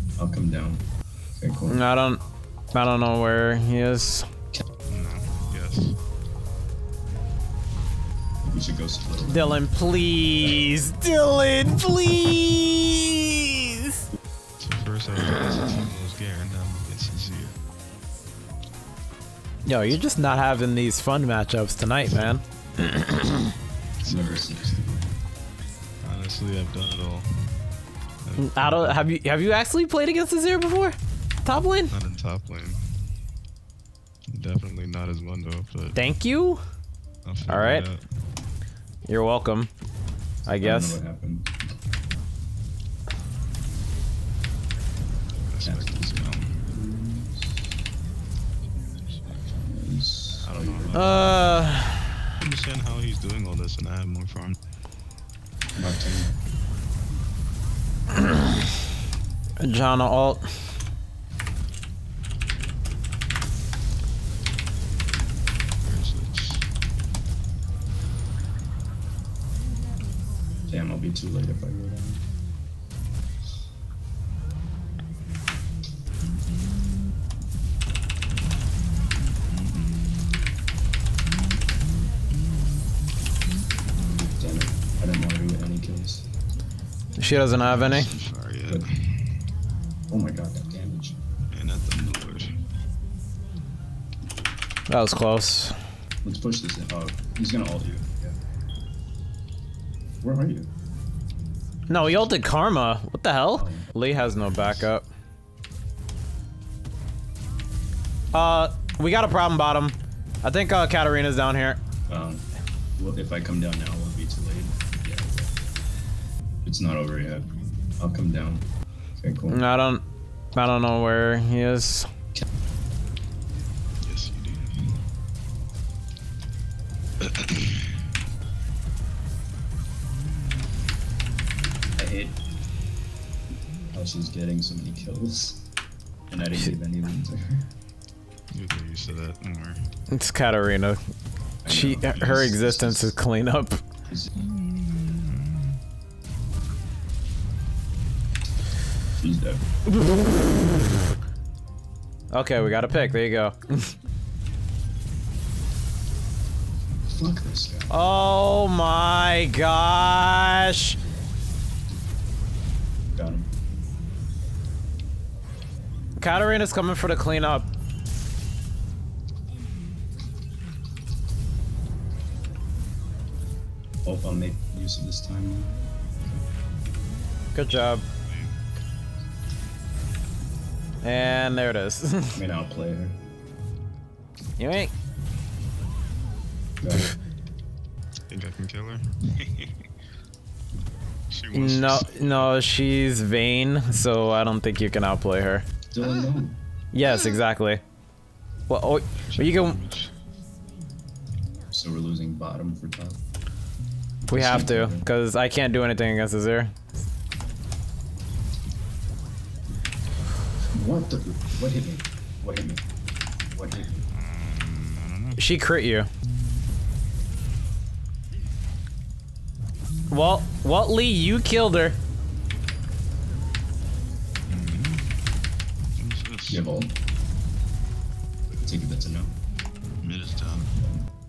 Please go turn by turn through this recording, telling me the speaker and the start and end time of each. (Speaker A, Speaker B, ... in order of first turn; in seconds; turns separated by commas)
Speaker A: 0.2-0.8, Speaker A: 1.4-1.9, Speaker B: 1.7-2.2, Speaker B: 2.7-4.3, Speaker C: 4.9-6.0, Speaker A: 8.4-9.6, Speaker B: 9.3-14.0, Speaker A: 10.4-10.7, Speaker C: 14.6-17.6, Speaker B: 19.7-23.5, Speaker C: 24.0-24.9, Speaker A: 24.1-25.0, Speaker C: 26.0-27.5, Speaker C: 28.2-29.1, Speaker B: 28.4-31.9, Speaker C: 31.9-33.0, Speaker C: 34.3-36.0, Speaker B: 36.0-36.6, Speaker C: 37.2-38.0, Speaker B: 37.5-37.9, Speaker B: 39.1-39.7, Speaker B: 40.5-41.0, Speaker A: 40.5-41.5, Speaker C: 45.4-46.6, Speaker A: 45.6-47.7, Speaker C: 48.7-49.3, Speaker A: 49.3-51.4, Speaker C: 50.4-51.7, Speaker B: 50.9-52.3, Speaker C: 52.4-54.6, Speaker A: 55.8-56.4, Speaker B: 58.1-58.6, Speaker B: 59.6-60.5, Speaker C: 65.8-66.7, Speaker A: 70.7-72.2, Speaker C: 79.5-80.4, Speaker A: 84.1-86.3, Speaker B: 87.2-88.1, Speaker C: 87.6-89.3, Speaker A: 90.1-91.2, Speaker C: 91.5-92.6, Speaker B: 94.9-95.8, Speaker A: 96.2-98.4, Speaker A: 100.2-100.7, Speaker B: 101.9-105.0, Speaker A: 103.5-104.9, Speaker B: 108.3-111.8, Speaker A: 112.1-115.6, Speaker A: 116.6-119.7, Speaker B: 119.5-120.0, Speaker B: 120.6-122.1, Speaker C: 124.0-125.0, Speaker C: 127.2-128.0, Speaker A: 132.0-132.4, Speaker A: 133.9-135.7, Speaker A: 136.3-137.7, Speaker C: 138.5-139.9, Speaker B: 140.1-141.0, Speaker A: 141.7-143.2, Speaker B: 141.7-143.8, Speaker C: 142.2-142.4, Speaker A: 144.1-144.3, Speaker C: 144.4-145.8, Speaker A: 149.2-149.7, Speaker B: 150.1-150.6, Speaker B: 152.3-153.9, Speaker A: 157.1-158.3, Speaker B: 157.9-161.0, Speaker A: 163.1-163.5, Speaker B: 166.2-167.7, Speaker A: 174.0-175.8, Speaker B: 177.5-178.1, Speaker C: 178.2-178.6, Speaker B: 181.0-182.4, Speaker A: 182.3-183.2, Speaker B: 184.6-184.9, Speaker A: 186.8-187.2, Speaker C: 188.3-189.7, Speaker C: 191.3-192.6, Speaker B: 191.5-195.7, Speaker A: 195.9-196.6, Speaker B: 196.9-197.8, Speaker B: 198.7-199.8, Speaker C: 199.2-200.1, Speaker A: 201.7-203.2, Speaker B: 204.3-206.7, Speaker A: 204.3-205.1, Speaker A: 210.7-212.9, Speaker A: 213.5-214.0, Speaker C: 214.1-215.4, Speaker B: 215.4-216.1, Speaker B: 220.1-222.0, Speaker C: 224.5-225.2, Speaker C: 226.0-226.7, Speaker A: 226.5-226.9, Speaker A: 228.6-229.3, Speaker C: 230.0-230.8